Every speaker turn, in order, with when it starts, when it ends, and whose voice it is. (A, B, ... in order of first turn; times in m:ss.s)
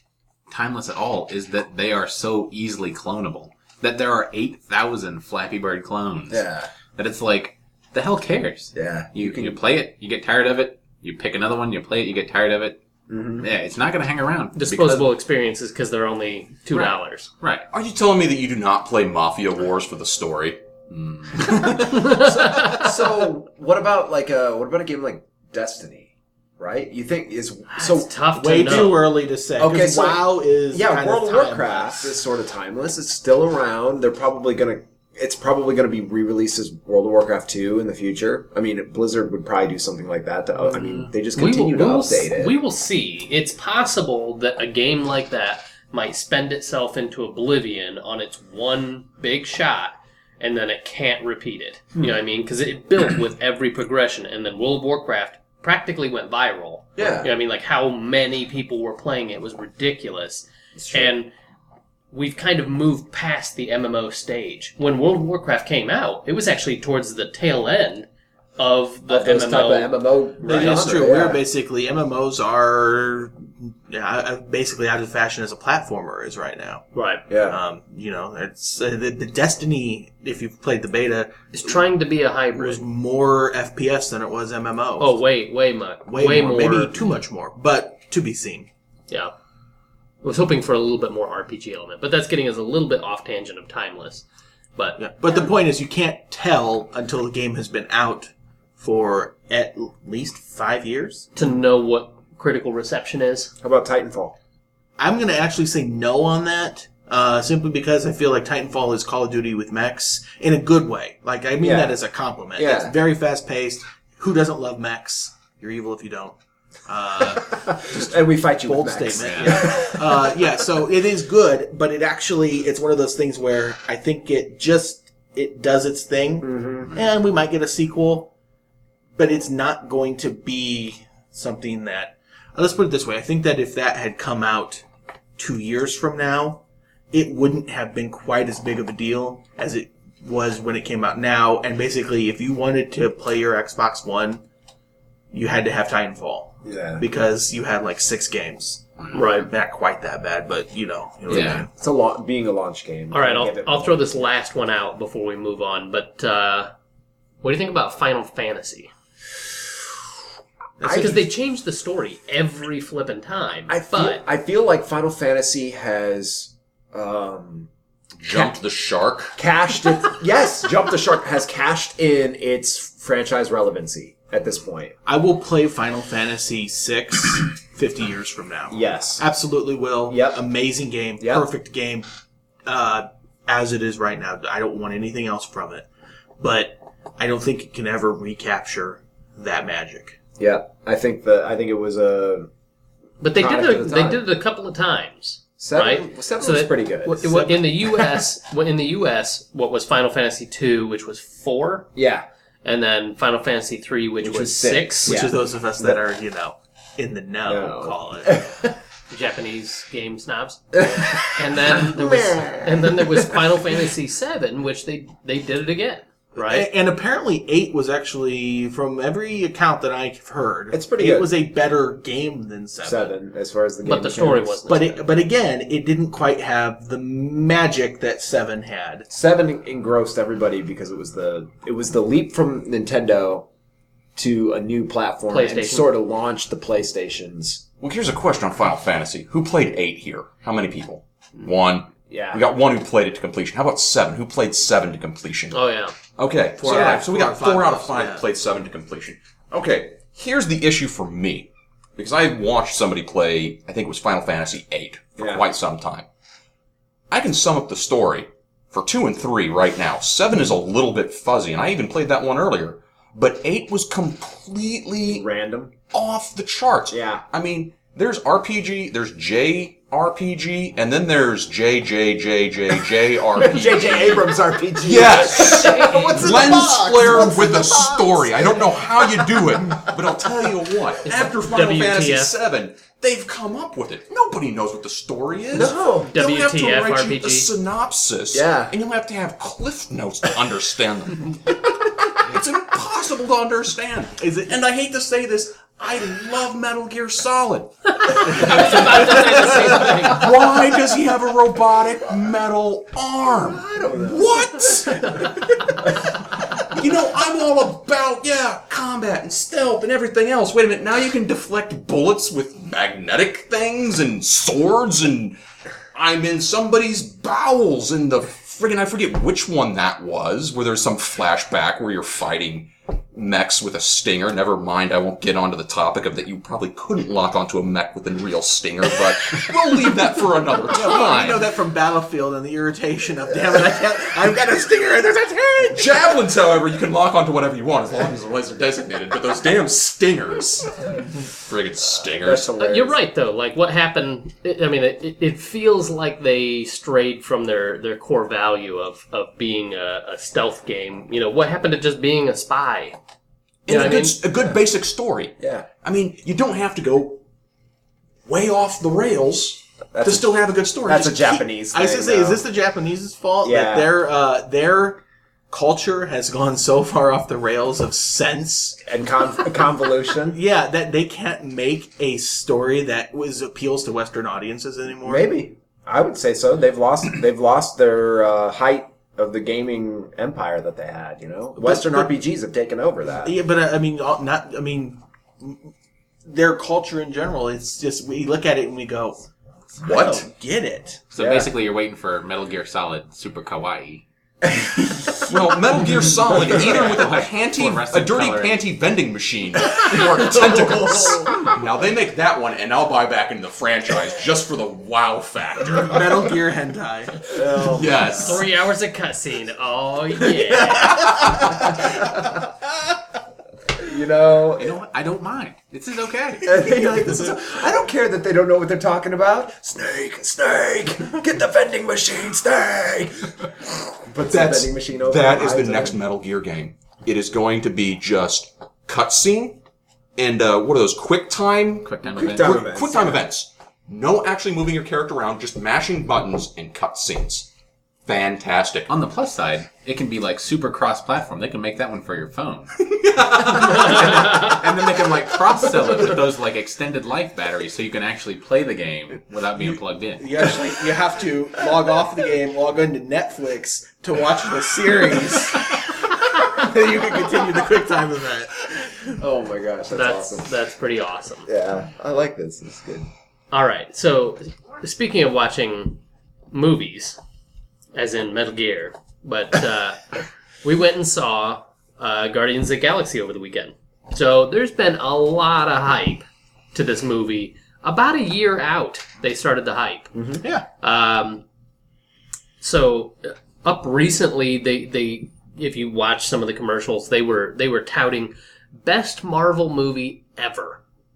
0:00.5-0:12.8 A
0:06.3-0:06.7 B
0:08.7-0:09.6 B
0:13.1-0:13.5 B
0:13.4-0:15.1 A
0:14.6-0:17.3 C
0:16.7-0:17.7 A
0:17.7-0:20.6 D
0:20.9-0:21.8 A
0:21.7-0:22.8 C
0:21.8-0:28.1 B
0:27.7-0:29.1 C
0:28.3-0:32.2 E
0:28.6-0:28.9 B
0:29.6-0:42.6 B
0:40.7-1:01.3 C
0:57.0-0:57.3 B
1:00.8-1:01.1 B
1:02.1-1:11.0 C
1:09.1-1:11.4 B
1:10.4-1:16.9 E
1:16.9-1:17.2 C
1:17.3-1:17.6 B
1:17.4-1:21.8 E
1:21.5-1:22.8 C
1:22.6-1:25.2 E
1:25.0-1:26.9 C
1:26.1-1:28.7 E
1:30.2-1:34.2 C
1:34.8-1:35.0 C
1:35.0-1:41.3 E
1:41.4-1:43.5 C
1:43.6-1:44.4 B
1:45.0-2:08.3 E
1:51.6-1:52.0 B
1:52.6-1:53.0 B
1:57.7-2:00.5 B
1:59.1-1:59.8 A
2:06.4-2:06.9 B
2:09.2-2:14.8 E
2:15.4-2:24.4 E
2:25.3-2:31.7 E
2:26.6-2:27.0 B
2:29.1-2:29.5 C
2:31.3-2:31.7 A
2:31.4-2:34.3 B
2:33.1-2:36.7 C
2:37.4-2:38.9 C
2:40.8-2:41.3 E
2:40.8-2:44.2 C
2:40.8-2:41.2 B
2:43.7-2:47.7 B
2:48.2-2:49.4 D
2:49.4-2:55.0 B
2:55.1-3:02.1 E
2:58.7-2:59.2 B
3:00.1-3:00.4 B
3:01.2-3:01.5 B
3:02.7-3:05.9 E
3:06.4-3:10.2 E
3:10.4-3:12.5 B
3:13.2-3:21.9 C
3:13.3-3:14.2 B
3:15.6-3:18.0 B
3:17.3-3:17.6 E
3:22.0-3:22.3 B
3:22.6-3:25.2 C
3:24.2-3:26.0 B
3:25.0-3:28.5 E
3:27.4-3:28.7 B
3:29.1-3:36.7 C
3:30.8-3:33.6 B
3:36.4-3:43.1 E
3:40.7-3:41.3 B
3:42.8-3:44.6 B
3:43.8-3:45.1 C
3:44.7-3:49.1 E
3:49.1-3:53.5 B
3:54.2-3:57.6 B
3:55.3-3:55.9 C
3:57.8-4:05.6 D
4:02.1-4:02.4 B
4:05.5-4:06.0 C
4:06.2-4:16.1 D
4:06.6-4:08.3 E
4:06.7-4:07.0 B
4:15.2-4:15.4 B
4:17.1-4:25.2 D
4:25.1-4:25.7 B
4:25.9-5:15.4 D
4:26.9-4:27.2 B
4:33.3-4:40.0 B
4:35.3-4:38.4 E
4:35.4-4:36.2 C
4:41.0-4:42.3 C
4:45.5-4:46.1 B
4:46.1-4:47.5 C
4:48.3-4:48.7 B
4:58.0-5:00.3 C
4:58.4-4:58.8 E
5:03.3-5:05.2 B
5:15.9-5:31.5 D
5:30.7-5:36.2 E
5:35.7-5:42.5 D
5:42.2-5:43.0 B
5:42.6-5:53.0 C
5:53.7-5:57.2 D
5:53.7-5:54.2 C
5:55.4-5:55.7 B
5:58.3-6:01.2 D
5:59.9-6:02.4 B
6:01.2-6:08.8 E
6:03.4-6:03.9 B
6:08.8-6:10.4 B
6:10.3-6:15.3 E
6:15.0-6:23.4 B
6:21.6-6:22.1 E
6:23.2-6:25.7 E
6:26.2-6:29.3 E
6:29.8-6:30.3 D
6:29.8-6:31.0 E
6:31.1-6:34.0 A
6:31.2-6:31.5 B
6:34.5-6:35.2 B
6:35.3-6:46.2 D
6:36.3-6:38.6 A
6:39.8-6:41.4 E
6:39.9-6:40.9 B
6:45.6-6:47.4 E
6:47.3-6:48.2 B
6:47.6-6:48.4 D
6:48.2-6:51.1 C
6:50.5-6:52.2 E
6:53.8-6:54.8 B
6:54.6-6:56.5 A
6:56.4-7:06.0 B
6:56.5-6:57.5 E
7:04.3-7:09.6 D
7:10.2-7:17.5 D
7:11.8-7:12.7 A
7:12.2-7:13.2 B
7:18.1-7:18.9 D
7:18.9-7:22.8 A
7:22.8-7:24.5 D
7:23.4-7:30.3 A
7:30.2-7:39.1 E
7:39.1-7:40.5 B
7:39.9-7:41.5 C
7:41.5-7:43.1 B
7:43.5-7:47.2 C
7:47.9-8:01.4 C
8:00.1-8:00.4 B
8:02.6-8:10.8 C